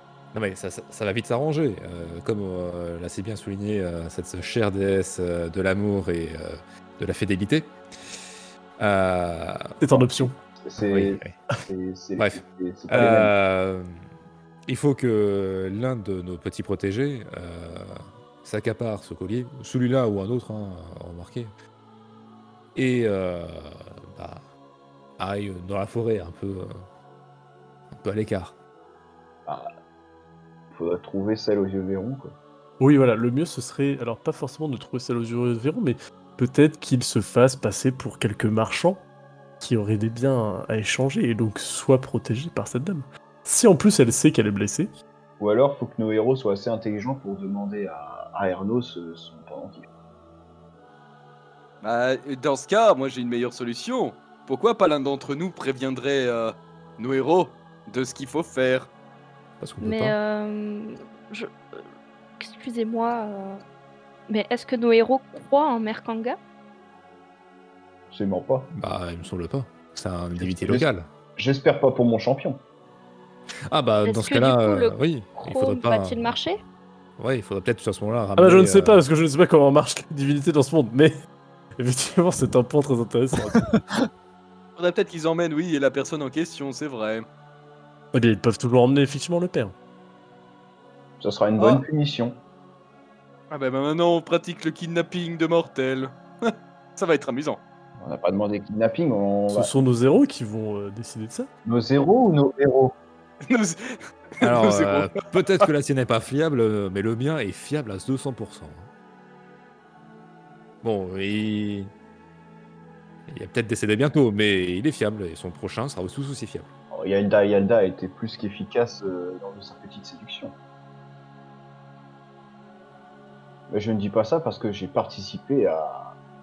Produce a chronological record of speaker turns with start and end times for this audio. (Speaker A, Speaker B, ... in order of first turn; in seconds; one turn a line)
Speaker A: 0.3-8.2
Speaker A: 8.8-11.4
Speaker B: 9.8-10.3
Speaker C: 10.6-13.3
Speaker A: 12.2-14.1
Speaker A: 14.7-21.5
Speaker A: 22.7-24.4
Speaker A: 25.2-26.7
Speaker A: 27.9-28.5
Speaker C: 29.4-29.7
Speaker C: 30.7-32.4
Speaker B: 32.8-39.0
Speaker B: 39.6-44.9
Speaker C: 45.4-49.9
Speaker D: 51.8-58.9
Speaker A: 59.6-60.1
Speaker E: 59.8-61.8
Speaker E: 62.4-63.6
Speaker E: 64.3-66.4
Speaker C: 68.1-68.7
Speaker A: 68.7-71.0
Speaker C: 70.4-72.6
Speaker A: 73.7-76.3
Speaker E: 74.0-76.6
Speaker A: 77.2-79.0
Speaker B: 78.4-81.1
Speaker B: 81.8-83.7
Speaker D: 84.8-87.2
Speaker B: 88.1-89.7
Speaker C: 91.2-92.4
Speaker D: 93.5-97.6
Speaker C: 98.0-99.7
Speaker B: 99.5-101.5
Speaker C: 101.7-103.0
Speaker D: 103.4-105.3
Speaker A: 104.4-108.9
Speaker A: 110.8-111.9
Speaker A: 113.3-116.7
Speaker C: 116.9-120.5
Speaker C: 123.7-126.1